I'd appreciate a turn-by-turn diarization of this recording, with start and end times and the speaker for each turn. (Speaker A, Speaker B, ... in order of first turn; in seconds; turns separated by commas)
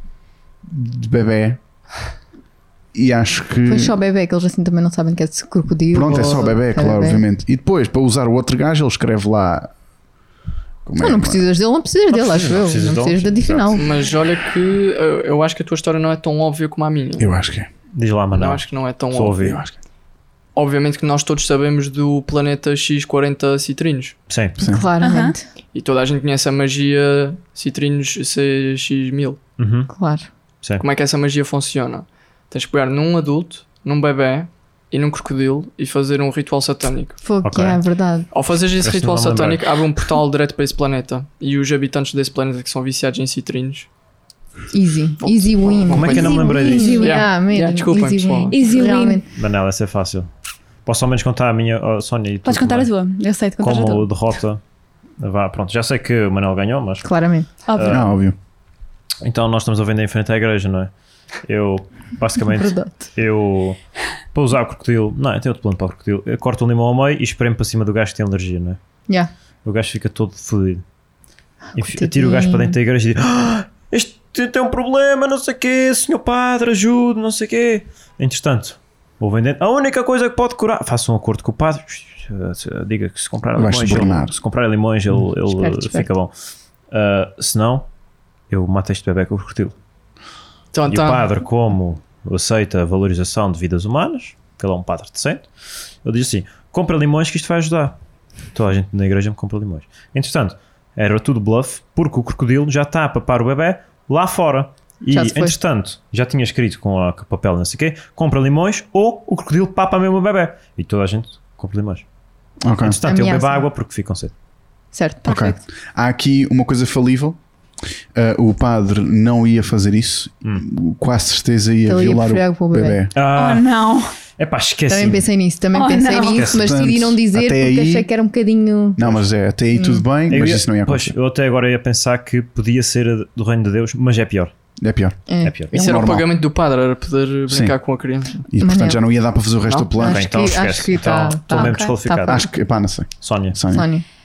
Speaker A: 0.7-1.6, Speaker A: 2.9-4.0, Speaker B: 3.7-7.2, Speaker A: 5.9-9.7, Speaker A: 10.8-11.4, Speaker B: 11.0-13.9, Speaker C: 12.1-13.8, Speaker D: 13.8-17.3, Speaker A: 17.2-17.7, Speaker C: 17.9-19.6, Speaker D: 18.3-19.4, Speaker A: 19.4-19.8, Speaker D: 20.5-24.1, Speaker C: 24.3-24.6, Speaker A: 24.6-24.9, Speaker B: 24.6-25.5, Speaker E: 25.0-25.3, Speaker D: 25.7-29.4, Speaker C: 29.6-29.9, Speaker B: 29.9-30.3, Speaker D: 30.8-37.2, Speaker B: 37.2-38.3, Speaker C: 37.4-37.8, Speaker D: 38.3-43.9, Speaker C: 38.8-39.6, Speaker B: 44.7-49.3, Speaker D: 45.2-48.6, Speaker C: 45.9-47.0, Speaker E: 46.1-47.2, Speaker E: 48.5-49.2, Speaker C: 49.3-50.3, Speaker C: 50.9-52.9, Speaker E: 52.4-54.1, Speaker C: 53.6-54.6, Speaker C: 55.2-57.1, Speaker B: 57.0-57.5, Speaker E: 57.7-58.0, Speaker C: 57.7-58.1, Speaker A: 57.8-58.4, Speaker C: 59.2-60.9, Speaker C: 61.4-63.8, Speaker B: 62.5-63.1, Speaker C: 64.3-68.8, Speaker C: 69.6-70.8, Speaker C: 71.8-86.3, Speaker B: 71.8-72.8, Speaker A: 83.5-84.3, Speaker B: 85.5-86.1, Speaker C: 86.9-87.9, Speaker C: 88.5-89.8, Speaker D: 90.7-91.3, Speaker C: 90.9-95.5, Speaker C: 96.0-98.0, Speaker C: 98.5-112.0, Speaker B: 105.1-105.6, Speaker A: 112.6-113.0, Speaker C: 112.8-114.3, Speaker B: 113.0-113.6, Speaker B: 114.9-115.5, Speaker A: 115.2-117.4, Speaker E: 115.2-115.5, Speaker A: 118.1-123.1, Speaker B: 121.9-123.0, Speaker C: 123.1-123.7, Speaker E: 123.3-124.1, Speaker C: 124.4-125.3, Speaker B: 124.9-129.2, Speaker E: 125.7-126.5, Speaker C: 126.3-126.6, Speaker A: 126.5-128.1, Speaker A: 129.0-131.1, Speaker B: 129.7-130.0, Speaker C: 130.3-134.5, Speaker A: 134.8-135.2, Speaker B: 135.3-136.0, Speaker C: 135.4-135.7, Speaker A: 135.7-136.3, Speaker D: 135.7-138.4, Speaker A: 137.5-137.8, Speaker A: 138.5-140.2, Speaker B: 138.6-139.0, Speaker D: 139.7-139.9, Speaker B: 140.0-142.5, Speaker C: 140.0-142.4, Speaker E: 141.6-141.9, Speaker A: 142.3-143.9, Speaker C: 143.2-143.6, Speaker B: 143.7-144.0